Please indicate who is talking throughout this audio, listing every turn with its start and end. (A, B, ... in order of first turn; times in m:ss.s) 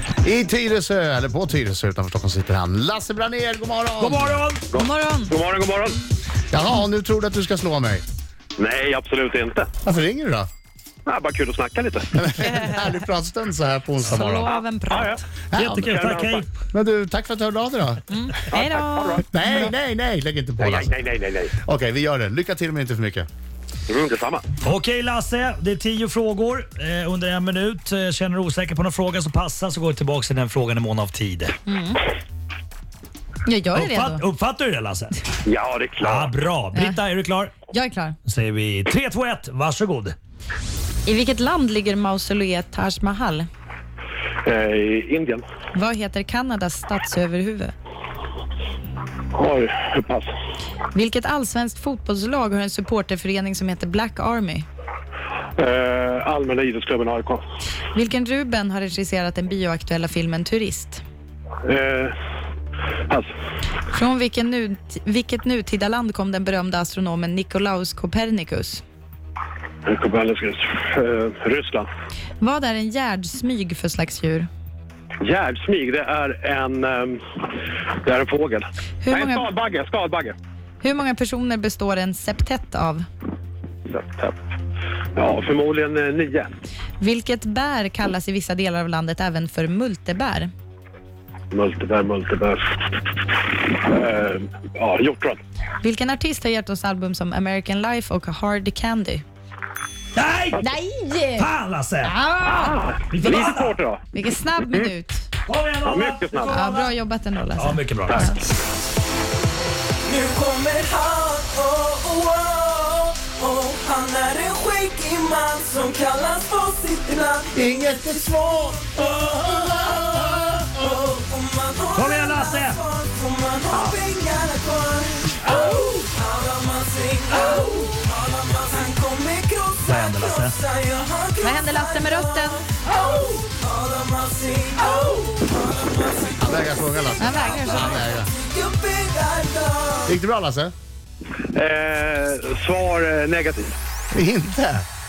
0:00.2-0:04.4 A
0:04.0-0:04.6 B
0:04.7-0:06.0 C
0:04.7-0:05.4 D
0:06.5-0:08.0 A
0:08.6-0:09.7 C
0:09.8-0:10.5 A
0:11.1-0:12.1 C
0:12.2-0:14.5 A
0:12.4-0:13.0 D
0:14.1-0:15.2 D
0:14.9-0:15.2 C
0:15.5-0:15.9 A
0:15.5-0:16.5 B
0:15.8-0:16.4 C
0:16.7-0:18.0 A
0:18.1-0:19.7 D
0:18.5-0:19.2 C
0:19.2-0:20.9 A
0:20.6-0:21.5 C
0:21.6-0:23.3 A
0:23.9-0:24.5 C
0:24.6-0:31.5 B
0:31.7-0:32.0 D
0:33.4-0:34.2 D
0:33.8-0:35.2 B
0:35.4-0:36.4 C
0:36.0-0:37.5 B
0:36.7-0:37.0 D
0:37.7-0:38.2 D
0:38.3-0:40.2 B
0:41.0-0:43.5 D
0:44.4-0:45.4 C
0:45.7-0:47.7 D
0:49.3-0:50.3 C
0:50.9-0:54.7 D
0:55.6-0:57.4 C
0:57.9-1:01.0 D
1:01.6-1:02.1 C
1:03.9-1:08.8 D
1:09.9-1:11.9 C
1:12.4-1:14.5 D
1:15.2-1:17.4 C
1:18.0-1:20.4 C
1:19.0-1:19.5 D
1:20.8-1:23.0 D
1:23.9-1:24.4 C
1:25.2-1:26.5 C
1:27.0-1:30.5 D
1:31.5-1:35.4 C
1:35.8-1:39.2 D
1:40.2-1:40.6 B
1:40.6-1:41.5 D
1:41.4-1:42.1 B
1:42.0-1:42.8 D
1:42.5-1:44.0 C
1:43.1-1:43.8 B
1:44.1-1:45.3 D
1:45.5-1:46.9 B
1:45.8-1:46.6 C
1:46.5-1:48.4 D
1:47.6-1:48.3 B
1:50.1-1:57.6 E
1:57.5-2:00.7 A
1:59.3-2:20.2 E
2:02.0-2:02.8 B
2:09.8-2:10.6 B
2:11.4-2:12.7 D
2:16.4-2:18.3 A
2:17.2-2:18.1 D
2:20.1-2:20.7 A
2:21.5-2:23.8 C
2:24.1-2:24.9 A